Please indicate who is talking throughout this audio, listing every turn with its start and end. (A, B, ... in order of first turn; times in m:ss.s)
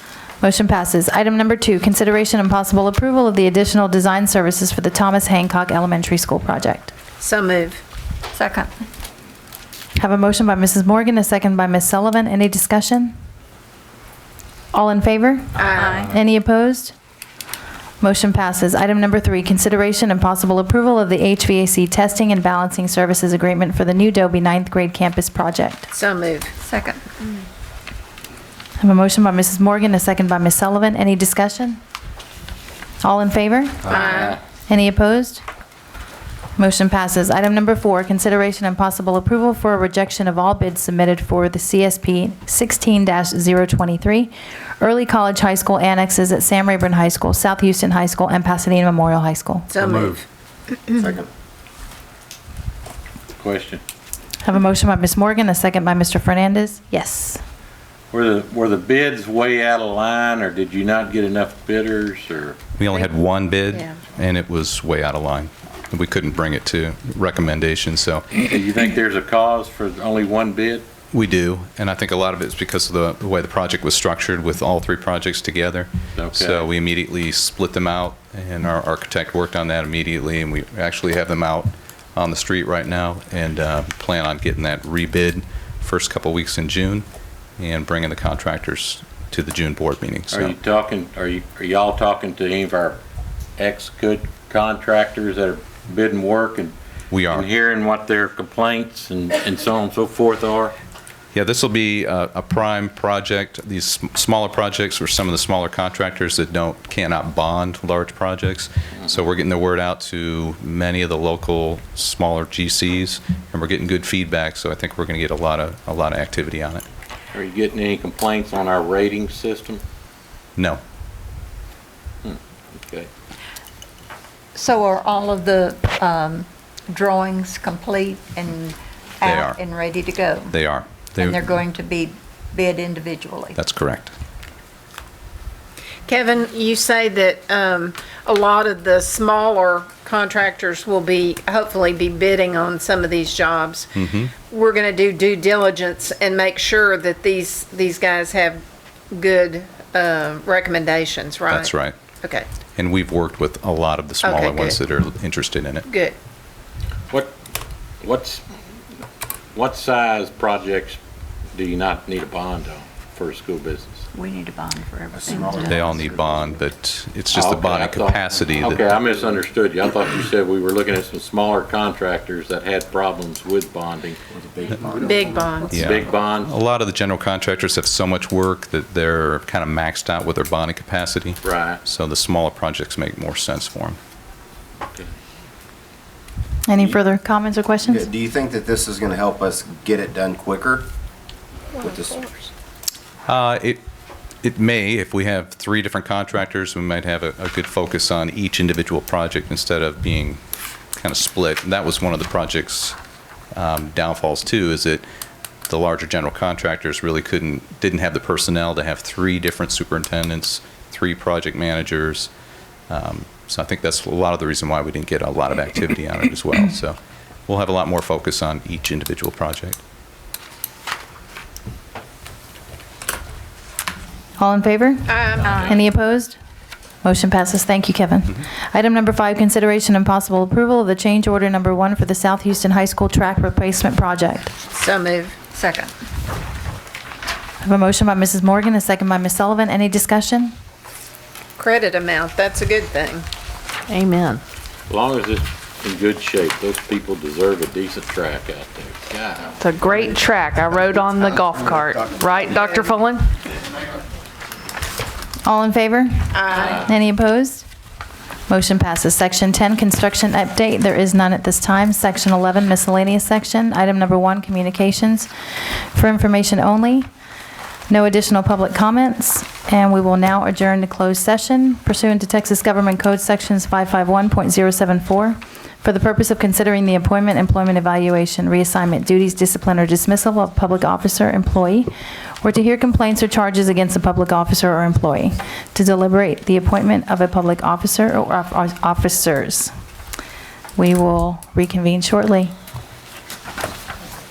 0:00.4-0:06.9 A
0:07.2-0:07.8 B
0:08.3-0:08.7 C
0:10.0-0:13.1 A
0:14.7-0:16.9 A
0:15.6-0:16.0 B
0:15.8-0:16.1 C
0:18.0-0:25.9 A
0:25.9-0:26.5 B
0:26.6-0:27.3 C
0:28.8-0:31.8 A
0:33.0-0:35.4 A
0:33.9-0:34.4 B
0:36.6-0:49.8 A
0:49.7-0:50.2 B
0:51.0-0:51.3 D
0:53.4-0:53.8 E
0:54.4-0:57.4 A
0:58.1-1:02.6 E
1:02.8-1:08.3 F
1:08.3-1:10.9 E
1:11.1-1:27.1 F
1:16.2-1:16.7 E
1:27.6-1:30.6 F
1:30.3-1:33.0 E
1:33.6-1:36.7 E
1:37.1-1:37.5 F
1:37.3-1:40.8 E
1:41.3-1:56.8 F
1:57.3-1:59.8 E
2:02.2-2:03.1 E
2:04.6-2:10.6 C
2:09.2-2:09.6 F
2:10.5-2:11.4 F
2:11.2-2:13.6 C
2:13.6-2:14.1 F
2:16.1-2:23.9 B
2:24.0-2:24.3 F
2:24.4-2:32.5 B
2:31.5-2:32.0 F
2:32.8-2:35.9 F
2:34.2-2:34.8 B
2:35.9-2:36.2 B
2:38.0-2:38.4 E
2:39.6-2:41.0 E
2:41.6-2:44.1 E
2:44.1-2:46.1 C
2:45.1-2:46.5 D
2:45.6-2:48.8 F
2:47.3-2:54.2 E
2:54.3-2:55.5 D
2:55.0-2:55.8 B
2:55.7-3:04.0 F
2:55.7-2:56.5 E
3:01.4-3:01.8 E
3:06.7-3:08.1 A
3:07.9-3:10.9 D
3:11.8-3:12.3 D
3:13.3-3:13.8 F
3:14.4-3:20.4 F
3:21.0-3:23.0 F
3:23.5-3:25.0 F
3:25.7-3:32.3 F
3:32.9-3:39.8 F
3:44.4-3:46.4 A
3:45.1-3:45.6 B
3:45.4-3:45.8 E
3:45.5-3:45.8 C
3:47.0-3:54.5 A
3:54.7-3:55.4 B
3:55.5-3:55.9 C
3:57.6-4:00.6 A
4:01.6-4:03.3 B
4:03.9-4:04.4 G
4:04.9-4:09.9 E
4:09.6-4:13.3 G
4:15.4-4:17.6 A
4:16.3-4:16.9 B
4:18.5-4:25.3 A
4:25.9-4:27.1 A
4:27.9-4:41.9 A
4:42.4-4:49.7 A
4:50.8-4:52.5 A